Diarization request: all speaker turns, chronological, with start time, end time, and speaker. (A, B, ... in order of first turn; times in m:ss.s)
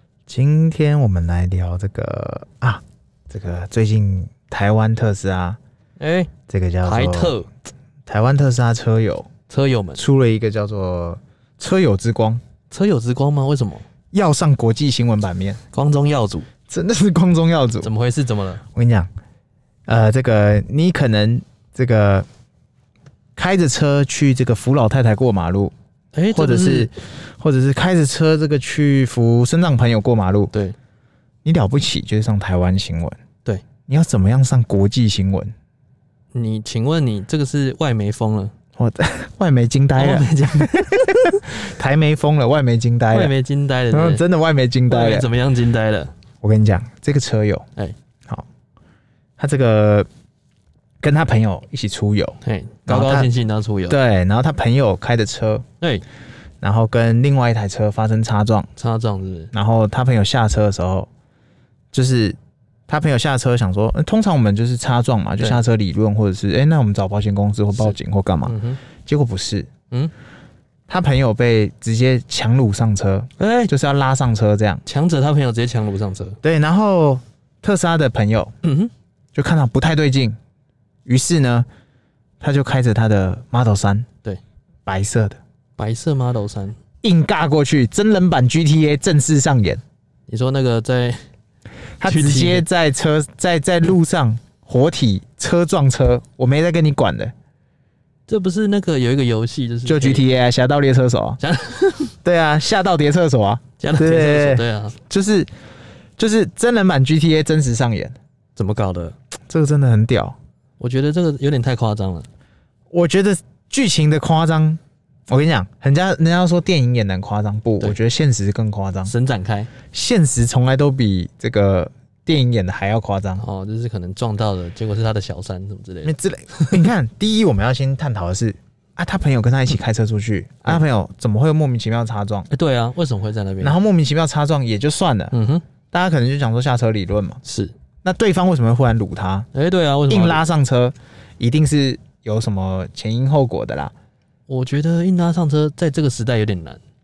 0:00.3-0:05.6 A
0:06.0-0:06.3 B
0:06.5-0:07.4 A
0:06.8-0:07.5 B
0:08.1-0:09.3 A
0:09.5-0:10.0 B
0:10.0-0:12.4 A
0:12.7-0:13.8 B
0:14.1-0:15.6 A
0:15.7-0:16.5 B
0:16.7-0:17.9 A
0:17.8-0:18.6 B
0:18.7-0:19.1 A
0:19.9-0:22.3 A
0:23.4-0:25.7 A
0:26.1-0:26.9 B
0:26.3-0:30.5 A
0:31.4-0:33.2 A
0:33.9-0:35.5 A
0:36.3-0:38.5 B
0:38.8-0:43.3 A
0:40.0-0:41.4 B
0:43.1-0:44.2 B
0:43.9-0:45.3 A
0:44.9-0:46.1 B
0:46.4-0:47.7 A
0:49.4-0:50.1 A
0:51.0-0:53.3 A
0:52.4-0:54.0 B
0:53.9-0:55.6 A
0:56.6-0:58.7 A
0:58.8-0:59.5 B
0:59.5-1:01.1 A
1:01.9-1:02.4 A
1:02.9-1:09.7 A
1:07.8-1:08.8 B
1:10.9-1:14.8 A
1:13.4-1:13.7 B
1:14.8-1:16.4 B
1:16.4-1:18.5 A
1:18.6-1:18.9 B
1:19.4-1:20.4 A
1:21.1-1:21.7 A
1:22.4-1:24.1 A
1:24.9-1:25.4 A
1:25.8-1:26.8 B
1:27.0-1:29.8 A
1:30.3-1:31.2 B
1:32.0-1:37.3 A
1:32.0-1:32.6 B
1:38.3-1:40.3 B
1:39.9-1:41.4 A
1:41.4-1:42.1 B
1:42.2-1:45.5 A
1:43.8-1:45.0 B
1:46.2-1:48.2 A
1:48.6-1:49.2 B
1:49.5-1:50.4 A
1:50.8-1:52.3 B
1:52.9-1:59.1 A
1:59.1-1:59.7 B
1:59.9-2:03.4 A
2:03.4-2:06.8 B
2:06.0-2:12.5 A
2:12.5-2:13.8 B
2:13.6-2:15.3 A
2:15.3-2:15.6 B
2:15.9-2:17.4 A
2:17.4-2:17.7 B
2:18.0-2:19.5 A
2:19.5-2:20.5 B
2:20.1-2:23.9 A
2:24.5-2:26.8 B